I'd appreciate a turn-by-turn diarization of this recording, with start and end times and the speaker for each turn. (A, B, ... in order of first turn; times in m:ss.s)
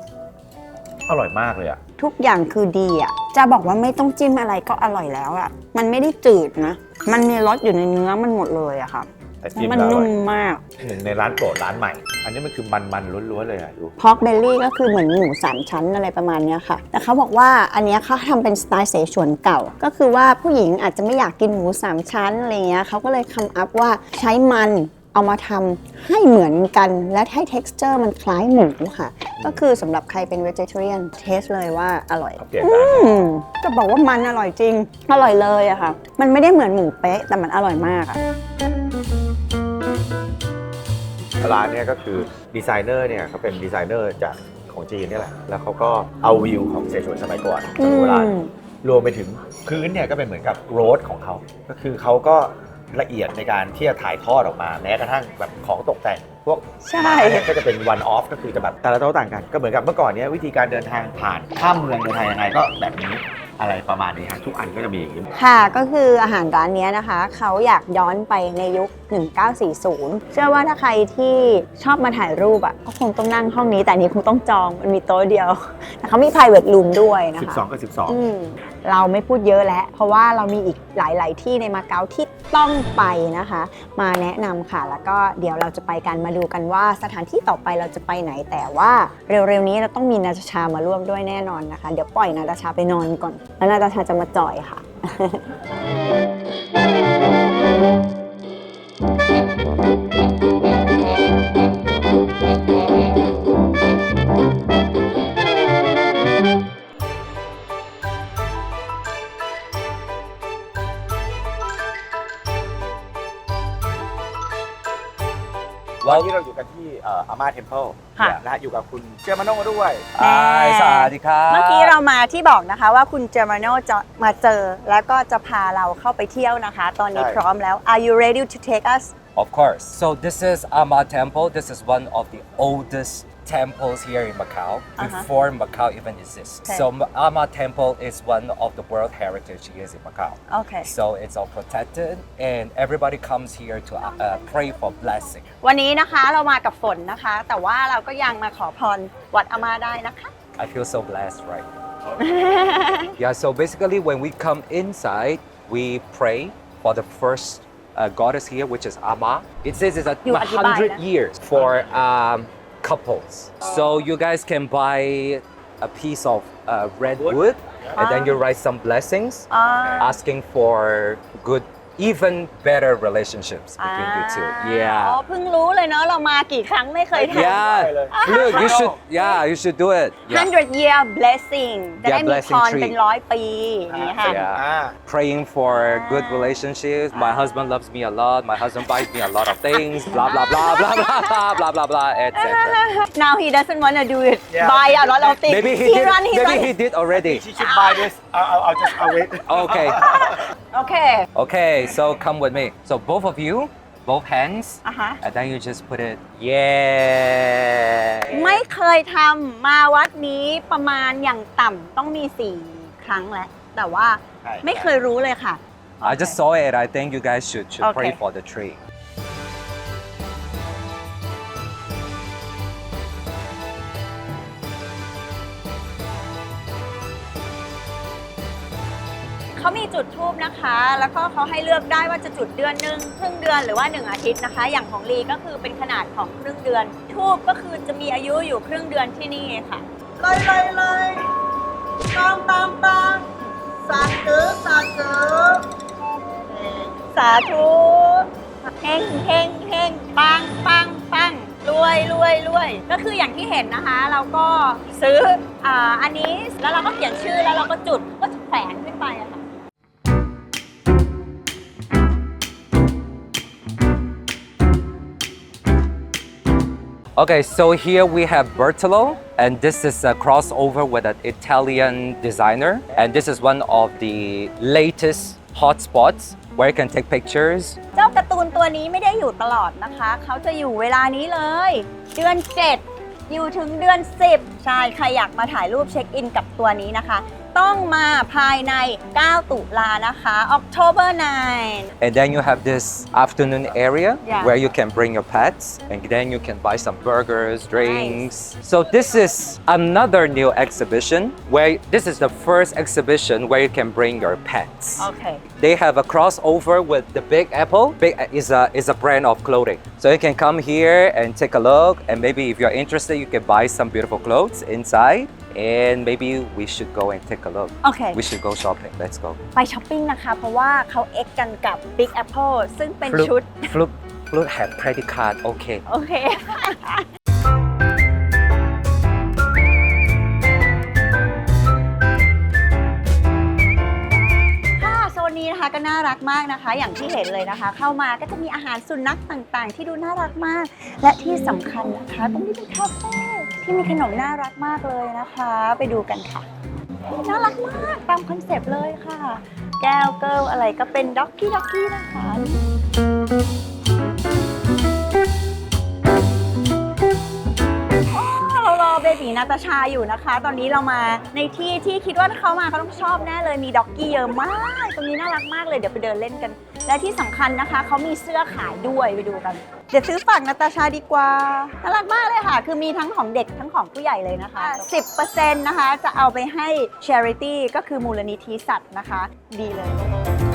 0:01.1-0:01.8 A
0:02.0-0:10.6 B
0:09.4-0:10.1 A
0:10.8-0:13.9 A
0:14.0-0:38.2 B
0:32.4-0:33.2 A
0:41.4-1:05.3 A
0:47.8-0:48.5 B
0:56.8-0:57.5 B
1:05.4-1:35.4 B
1:17.4-1:18.2 A
1:56.0-1:56.3 C
1:56.0-2:00.1 A
2:00.2-2:01.9 C
2:00.2-2:09.1 B
2:07.1-2:07.4 A
2:09.3-2:25.4 C
2:15.0-2:15.3 B
2:20.5-2:20.9 B
2:25.6-2:30.3 B
2:30.6-2:31.7 C
2:32.2-2:33.2 B
2:33.2-2:49.5 C
2:40.2-2:41.0 B
2:47.2-2:48.0 A
2:48.0-2:48.4 B
2:49.5-2:50.2 B
2:50.0-2:55.2 C
2:53.8-2:59.4 B
2:57.1-2:59.0 A
2:57.3-3:00.5 C
3:00.2-3:04.4 B
3:02.0-3:03.0 C
3:03.9-3:05.0 A
3:04.2-3:12.8 C
3:05.7-3:07.5 B
3:10.1-3:11.4 B
3:12.3-3:16.7 B
3:14.5-3:15.4 A
3:15.5-3:17.4 C
3:17.1-3:20.4 A
3:17.5-3:18.1 B
3:18.8-3:21.3 B
3:19.5-3:20.0 C
3:21.3-3:28.6 C
3:24.8-3:25.2 B
3:28.3-3:36.4 B
3:34.4-3:34.9 A
3:36.0-3:38.8 C
3:37.8-3:38.2 B
3:49.6-4:01.3 B
4:02.1-4:05.7 B
4:06.5-4:08.3 B
4:08.8-4:19.4 B
4:27.2-4:37.8 C
4:37.9-4:51.9 B
4:52.0-5:19.4 C
4:54.2-4:54.6 B
4:57.8-4:58.3 B
5:05.0-5:05.4 B
5:17.8-5:18.2 B
5:19.5-5:23.7 B
5:23.0-5:25.8 C
5:25.9-5:27.0 B
5:34.8-5:46.5 B
5:47.1-5:52.6 B
5:58.1-6:20.0 B